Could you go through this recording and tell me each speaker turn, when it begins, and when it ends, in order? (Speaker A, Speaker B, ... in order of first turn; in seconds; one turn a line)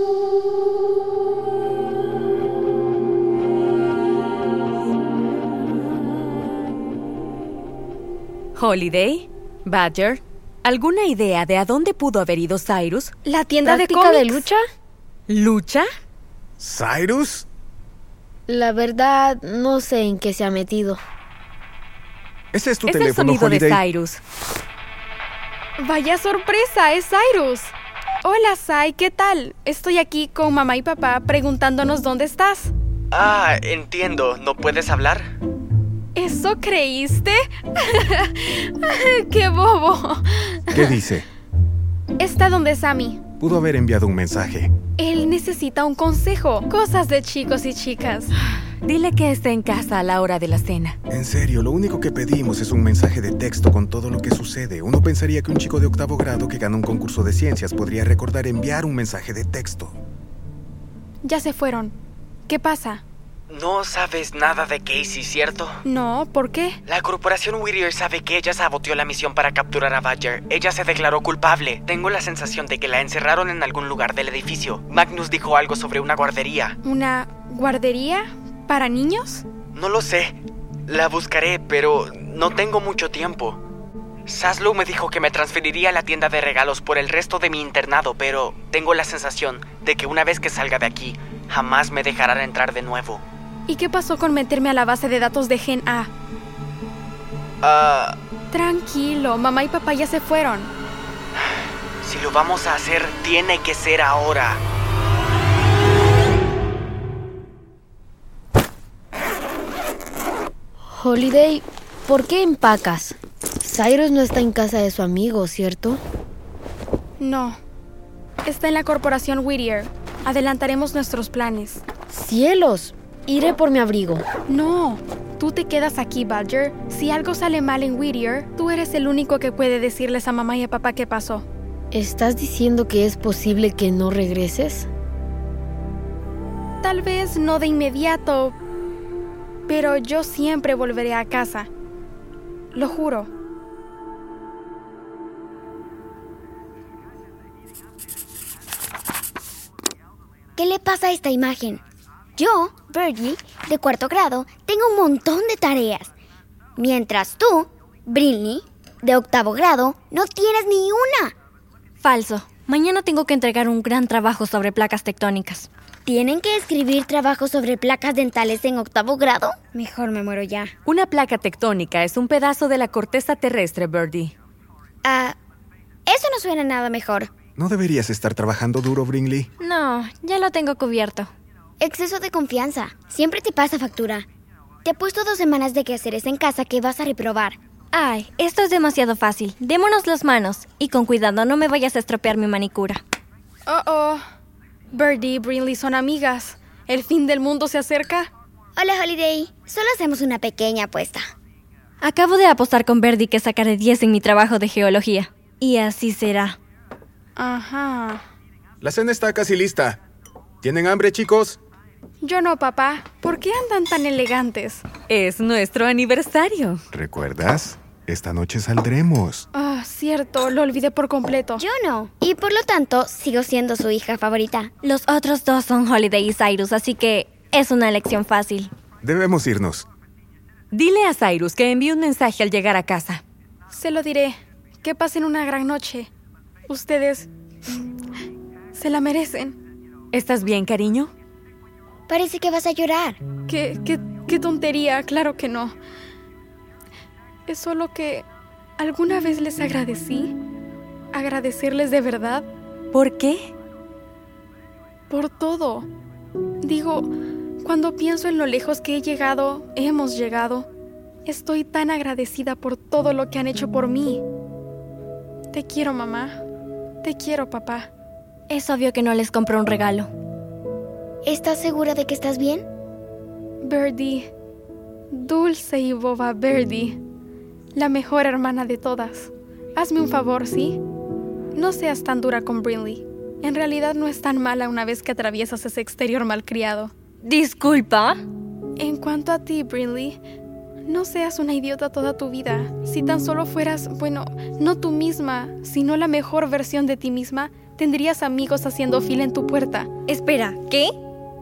Speaker A: 8.6-13.1
Speaker B: 13.3-14.5
Speaker C: 13.7-14.6
Speaker A: 15.3-15.9
Speaker D: 16.6-17.5
Speaker C: 18.5-21.0
Speaker D: 22.5-23.8
Speaker A: 22.9-24.2
Speaker B: 25.8-32.7
Speaker E: 33.1-35.3
Speaker B: 36.2-41.0
Speaker D: 40.7-41.3
Speaker B: 42.2-43.2
Speaker D: 43.4-44.7
Speaker B: 45.0-48.3
Speaker A: 48.8-51.0
Speaker D: 51.1-59.9
Speaker B: 61.2-62.0
Speaker B: 62.5-63.0
Speaker E: 63.5-65.8
Speaker B: 65.9-66.8
Speaker E: 66.9-76.8
Speaker B: 76.8-79.4
Speaker E: 79.8-83.6
Speaker E: 84.3-93.2
Speaker B: 93.7-96.1
Speaker E: 97.6-98.2
Speaker B: 98.5-100.7
Speaker E: 102.0-104.6
Speaker C: 111.0-116.0
Speaker B: 117.2-117.6
Speaker B: 118.5-121.8
Speaker C: 122.1-124.2
Speaker B: 124.5-131.5
Speaker C: 131.9-134.9
Speaker B: 136.8-138.6
Speaker B: 139.7-141.7
Speaker B: 142.7-143.3
Speaker F: 150.6-151.8
Speaker F: 152.4-156.1
Speaker F: 156.8-161.3
Speaker G: 162.0-165.7
Speaker F: 166.1-170.7
Speaker A: 170.9-174.3
Speaker F: 175.1-175.4
Speaker F: 176.1-177.3
Speaker D: 177.6-179.5
Speaker G: 179.6-181.3
Speaker F: 181.8-184.3
Speaker F: 184.8-187.6
Speaker G: 187.9-193.0
Speaker B: 193.7-194.2
Speaker B: 194.9-198.3
Speaker F: 198.8-201.2
Speaker G: 202.0-206.6
Speaker B: 207.4-208.2
Speaker D: 208.8-210.0
Speaker D: 210.6-211.6
Speaker B: 212.2-214.8
Speaker A: 215.1-216.8
Speaker D: 216.9-219.4
Speaker B: 219.5-221.6
Speaker F: 221.6-224.7
Speaker G: 224.8-228.7
Speaker D: 229.0-229.8
Speaker A: 230.7-233.2
Speaker B: 233.7-236.1
Speaker B: 236.7-237.3
Speaker B: 238.8-239.6
Speaker A: 240.1-241.1
Speaker F: 242.1-243.2
Speaker B: 243.5-245.8
Speaker B: 247.5-248.2
Speaker B: 248.8-250.3
Speaker B: 251.1-252.5
Speaker A: 252.9-253.5
Speaker B: 255.1-255.9
Speaker B: 256.6-257.1
Speaker B: 257.6-260.7
Speaker B: 261.3-264.2
Speaker B: 265.5-266.4
Speaker B: 267.0-267.9
Speaker G: 268.5-270.1
Speaker F: 271.2-272.7
Speaker B: 273.6-274.3
Speaker B: 275.1-277.0
Speaker B: 277.8-280.8
Speaker B: 281.6-286.9
Speaker G: 287.2-288.2
Speaker B: 288.8-290.2
Speaker B: 290.9-299.9
Speaker G: 300.1-300.9